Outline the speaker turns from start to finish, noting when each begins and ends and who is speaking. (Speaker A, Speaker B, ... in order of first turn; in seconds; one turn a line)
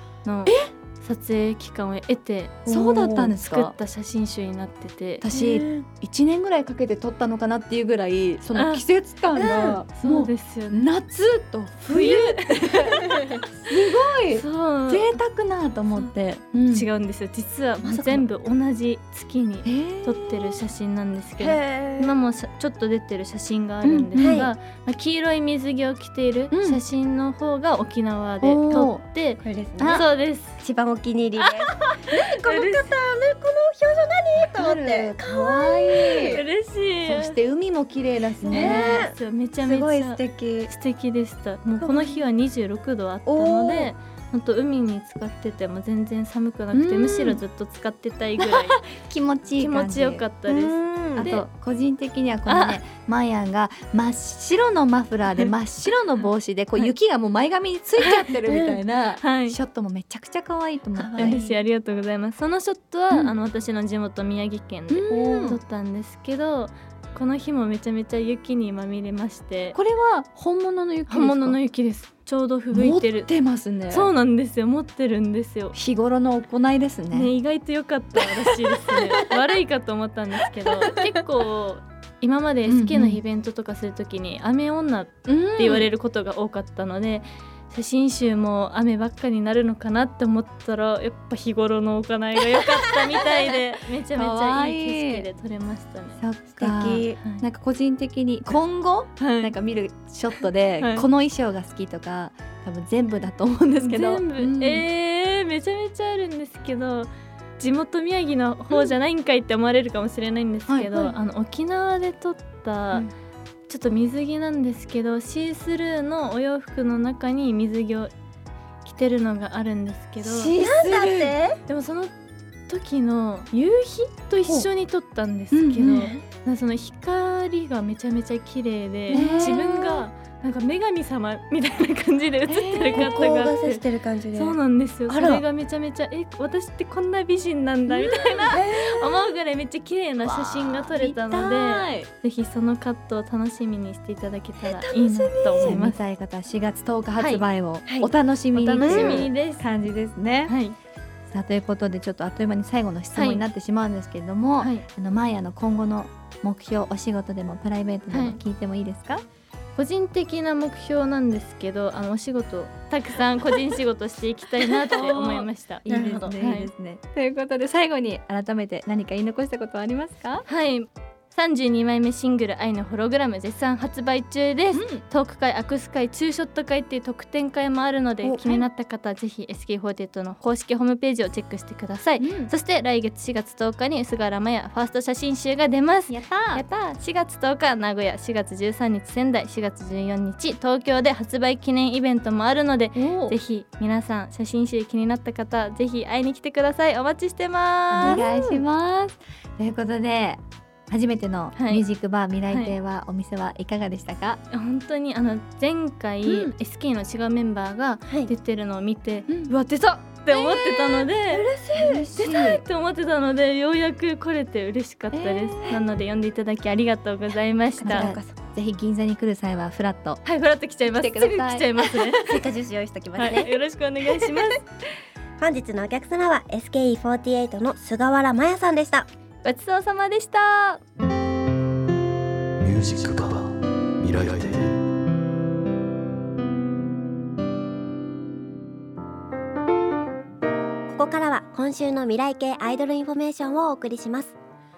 Speaker A: 0.2-5.2
Speaker B: 2.6-3.7
Speaker B: 5.2-16.9
Speaker C: 5.3-5.9
Speaker A: 8.5-8.8
Speaker C: 9.3-9.8
Speaker A: 9.3-10.8
Speaker A: 11.8-13.4
Speaker A: 14.3-15.1
Speaker A: 16.7-30.6
Speaker B: 17.8-18.2
Speaker B: 19.6-20.6
Speaker C: 21.4-22.1
Speaker B: 23.8-24.5
Speaker C: 24.1-24.5
Speaker B: 26.5-26.8
Speaker B: 28.4-29.0
Speaker C: 29.4-30.1
Speaker B: 29.8-30.1
Speaker C: 30.6-36.4
Speaker A: 31.4-32.9
Speaker B: 34.4-36.4
Speaker A: 36.2-37.4
Speaker B: 37.0-39.0
Speaker A: 38.5-48.8
Speaker C: 38.5-40.7
Speaker C: 41.8-42.1
Speaker C: 43.3-43.9
Speaker B: 46.7-47.4
Speaker B: 48.4-50.2
Speaker A: 49.6-51.4
Speaker C: 50.5-51.4
Speaker B: 51.1-61.4
Speaker A: 52.5-52.8
Speaker A: 58.0-58.3
Speaker C: 58.5-58.8
Speaker A: 59.2-59.6
Speaker C: 61.0-61.5
Speaker A: 61.2-69.8
Speaker B: 64.9-65.6
Speaker C: 65.1-65.5
Speaker B: 69.7-71.6
Speaker A: 71.1-73.3
Speaker B: 72.7-74.1
Speaker A: 73.9-75.7
Speaker B: 75.7-77.3
Speaker A: 77.1-96.2
Speaker B: 82.7-83.2
Speaker B: 85.2-85.9
Speaker B: 94.1-95.2
Speaker B: 96.2-104.9
Speaker C: 96.6-97.2
Speaker A: 99.2-99.5
Speaker A: 100.8-101.0
Speaker A: 103.8-113.1
Speaker B: 110.7-111.1
Speaker A: 113.7-118.1
Speaker A: 118.8-120.5
Speaker B: 120.3-121.3
Speaker C: 120.5-121.6
Speaker A: 121.7-122.1
Speaker A: 122.7-133.8
Speaker B: 125.5-126.1
Speaker C: 129.1-129.6
Speaker B: 129.1-130.0
Speaker B: 132.5-133.3
Speaker C: 132.9-134.6
Speaker A: 134.3-146.0
Speaker C: 135.1-135.4
Speaker C: 138.5-139.3
Speaker B: 140.2-142.1
Speaker C: 144.6-145.8
Speaker B: 145.6-150.5
Speaker A: 147.2-147.4
Speaker C: 147.9-148.1
Speaker A: 148.5-149.7
Speaker C: 148.8-149.3
Speaker A: 150.4-150.7
Speaker B: 151.3-159.2
Speaker A: 153.1-153.4
Speaker A: 154.6-154.8
Speaker A: 158.1-158.4
Speaker A: 159.8-165.8
Speaker B: 164.9-170.4
Speaker C: 165.9-166.3
Speaker A: 166.4-166.7
Speaker A: 170.5-198.2
Speaker B: 174.7-175.0
Speaker B: 178.2-178.6
Speaker B: 182.2-182.5
Speaker B: 186.1-186.6
Speaker B: 192.9-193.4
Speaker B: 197.9-204.4
Speaker C: 198.0-198.5
Speaker A: 201.6-201.8
Speaker A: 204.5-211.5
Speaker B: 206.2-206.5
Speaker B: 209.3-209.5
Speaker C: 210.3-212.1
Speaker B: 211.7-212.6
Speaker A: 212.2-218.1
Speaker B: 215.1-215.8
Speaker C: 217.8-218.3
Speaker B: 217.9-220.2
Speaker A: 220.2-222.4
Speaker B: 220.9-221.9
Speaker C: 222.2-223.5
Speaker A: 223.2-224.7
Speaker C: 225.4-229.1
Speaker A: 229.4-230.8
Speaker D: 232.6-234.8
Speaker C: 240.9-244.4